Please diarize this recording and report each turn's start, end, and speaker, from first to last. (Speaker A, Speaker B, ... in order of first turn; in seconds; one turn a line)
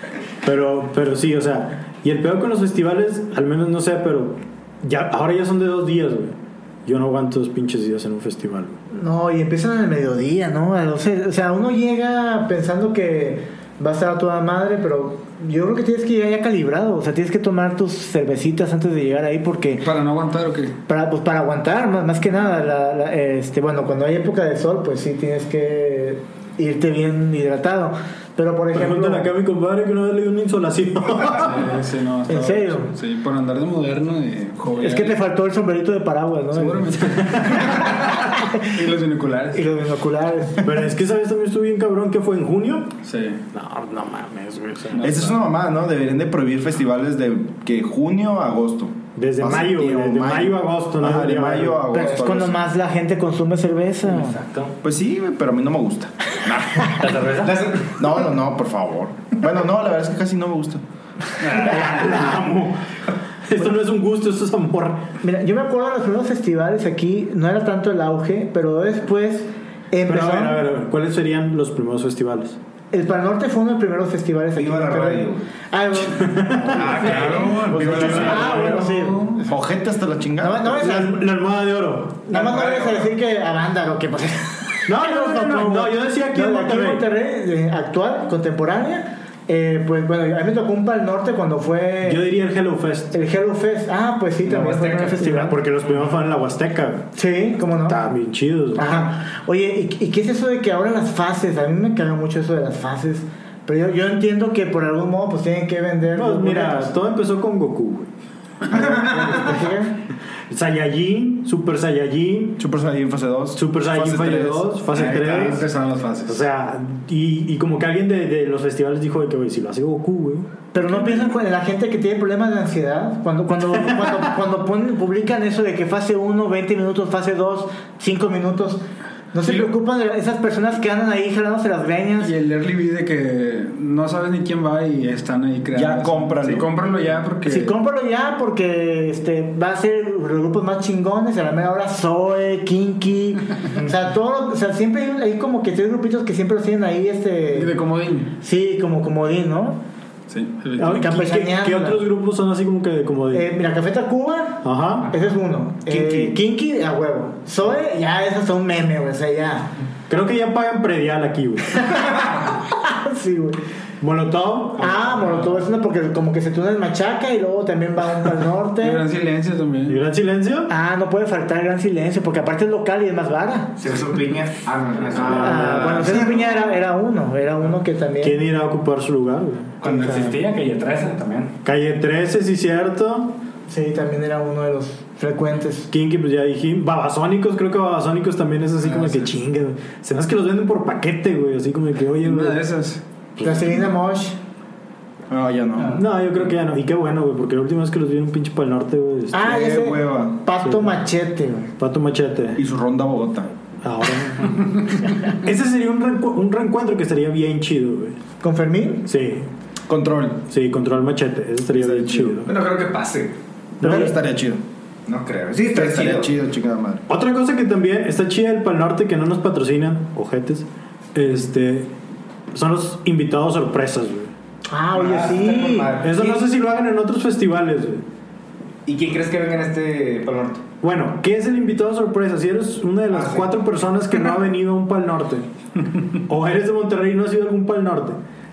Speaker A: 0.4-8.8
Speaker B: 8.9-19.9
Speaker C: 19.8-20.8
Speaker B: 20.9-29.3
Speaker A: 28.7-31.7
Speaker C: 31.3-35.2
Speaker B: 32.3-32.9
Speaker B: 34.8-37.0
Speaker C: 36.5-39.6
Speaker B: 37.8-38.6
Speaker B: 39.5-40.7
Speaker A: 40.6-42.9
Speaker C: 43.0-43.4
Speaker A: 43.5-45.1
Speaker C: 44.9-45.5
Speaker D: 45.0-52.6
Speaker A: 49.1-52.0
Speaker B: 51.9-54.4
Speaker E: 54.1-54.7
Speaker D: 54.8-57.1
Speaker E: 57.0-57.5
Speaker F: 57.4-58.0
Speaker D: 57.9-60.8
Speaker A: 61.5-62.9
Speaker A: 63.4-65.1
Speaker B: 65.2-70.6
Speaker A: 70.0-72.6
Speaker B: 72.9-79.6
Speaker F: 74.5-75.5
Speaker A: 76.2-79.0
Speaker F: 76.7-78.5
Speaker C: 76.8-79.3
Speaker D: 77.8-78.4
Speaker D: 79.5-80.7
Speaker B: 80.4-81.2
Speaker A: 80.7-82.3
Speaker B: 82.3-92.2
Speaker F: 82.3-83.1
Speaker A: 84.8-87.0
Speaker A: 92.0-93.1
Speaker B: 93.1-95.6
Speaker F: 94.4-95.3
Speaker A: 95.2-97.1
Speaker B: 97.1-98.0
Speaker A: 97.8-99.0
Speaker B: 98.8-106.9
Speaker A: 106.1-108.1
Speaker B: 108.7-110.0
Speaker A: 110.5-112.6
Speaker D: 112.6-114.7
Speaker A: 113.5-115.7
Speaker C: 114.9-116.4
Speaker A: 116.3-120.5
Speaker B: 120.7-132.3
Speaker C: 132.2-137.7
Speaker D: 135.7-136.7
Speaker B: 137.4-147.7
Speaker C: 147.5-148.3
Speaker B: 148.4-149.8
Speaker C: 150.3-151.0
Speaker A: 150.8-153.5
Speaker B: 150.8-152.0
Speaker B: 153.3-159.7
Speaker A: 154.6-155.1
Speaker A: 155.9-156.4
Speaker A: 160.1-161.8
Speaker B: 161.9-163.6
Speaker A: 164.0-165.2
Speaker B: 164.8-169.0
Speaker C: 168.8-170.0
Speaker A: 169.8-170.7
Speaker B: 170.7-173.8
Speaker F: 173.8-176.1
Speaker A: 175.1-176.2
Speaker B: 175.2-178.4
Speaker A: 178.2-179.8
Speaker E: 179.8-181.5
Speaker B: 179.8-180.3
Speaker F: 179.8-180.1
Speaker A: 181.6-183.4
Speaker B: 183.7-185.9
Speaker A: 185.9-192.6
Speaker C: 192.2-193.0
Speaker A: 193.4-193.8
Speaker B: 193.4-194.4
Speaker D: 195.3-196.0
Speaker A: 195.8-199.5
Speaker B: 199.3-201.7
Speaker D: 199.4-200.4
Speaker A: 200.6-201.0
Speaker A: 201.8-202.6
Speaker D: 202.6-203.5
Speaker A: 203.8-208.2
Speaker B: 208.4-209.1
Speaker A: 209.1-209.5
Speaker D: 209.9-210.4
Speaker A: 210.5-212.5
Speaker D: 211.7-212.4
Speaker F: 212.4-213.3
Speaker A: 213.8-214.1
Speaker D: 213.8-214.6
Speaker B: 213.8-214.1
Speaker F: 215.1-216.3
Speaker D: 215.7-217.0
Speaker A: 217.1-221.9
Speaker A: 222.5-224.3
Speaker B: 224.7-226.2
Speaker F: 224.9-226.4
Speaker A: 226.0-228.0
Speaker F: 228.8-230.6
Speaker A: 230.8-235.5
Speaker F: 233.1-233.5
Speaker A: 236.2-238.2